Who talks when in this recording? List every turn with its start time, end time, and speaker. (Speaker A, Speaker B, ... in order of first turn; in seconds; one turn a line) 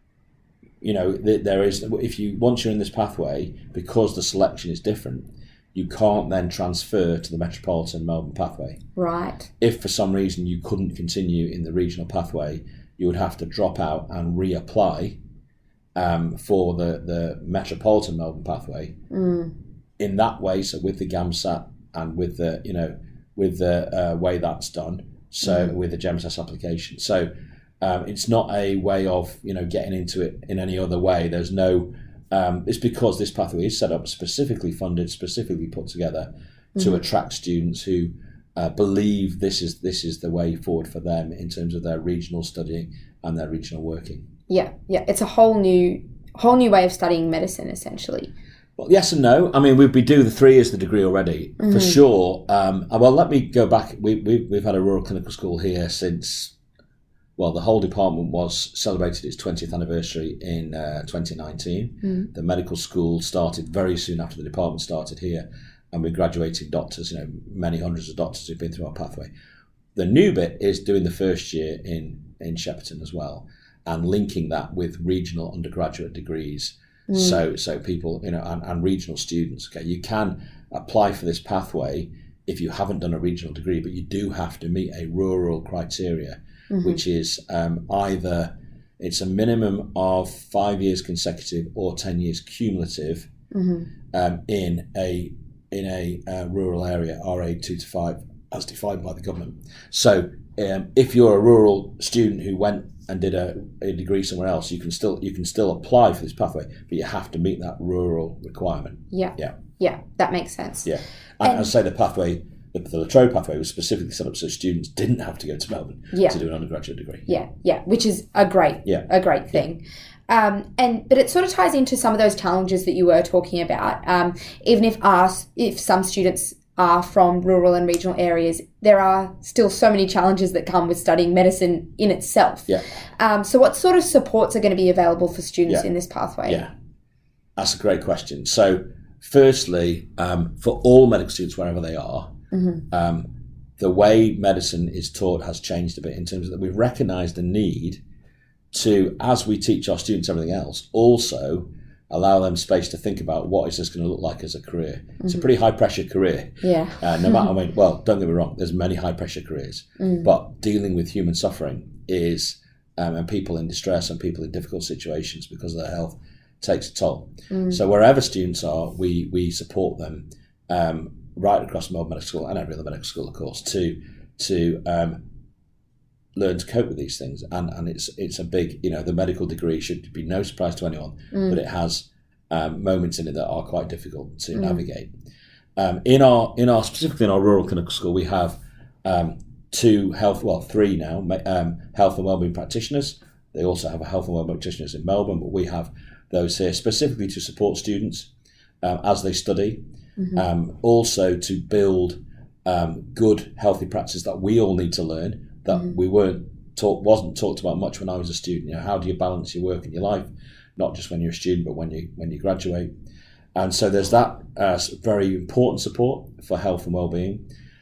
Speaker A: 0.8-8.8
Speaker B: 8.9-9.5
Speaker A: 9.6-15.2
Speaker A: 15.9-18.9
Speaker B: 19.1-19.5
Speaker A: 20.0-27.3
Speaker B: 25.4-25.7
Speaker A: 27.8-44.3
Speaker B: 44.5-48.3
Speaker A: 48.8-56.5
Speaker B: 51.6-52.0
Speaker A: 57.4-69.3
Speaker B: 62.0-62.3
Speaker A: 69.9-93.3
Speaker B: 77.1-77.4
Speaker B: 86.7-87.0
Speaker B: 93.5-93.9
Speaker A: 94.1-109.5
Speaker B: 109.1-110.9
Speaker A: 110.8-117.3
Speaker B: 111.4-111.7
Speaker B: 116.1-116.4
Speaker B: 117.3-136.6
Speaker A: 118.8-119.5
Speaker A: 136.4-136.7
Speaker A: 137.6-142.3
Speaker B: 142.5-142.8
Speaker A: 142.9-148.0
Speaker A: 148.7-175.2
Speaker B: 155.2-155.5
Speaker B: 156.6-157.5
Speaker B: 160.0-160.3
Speaker B: 167.5-167.8
Speaker A: 176.3-185.1
Speaker B: 181.3-181.6
Speaker B: 184.5-184.8
Speaker A: 185.8-198.3
Speaker A: 198.8-199.8
Speaker A: 200.3-212.9
Speaker A: 213.5-217.4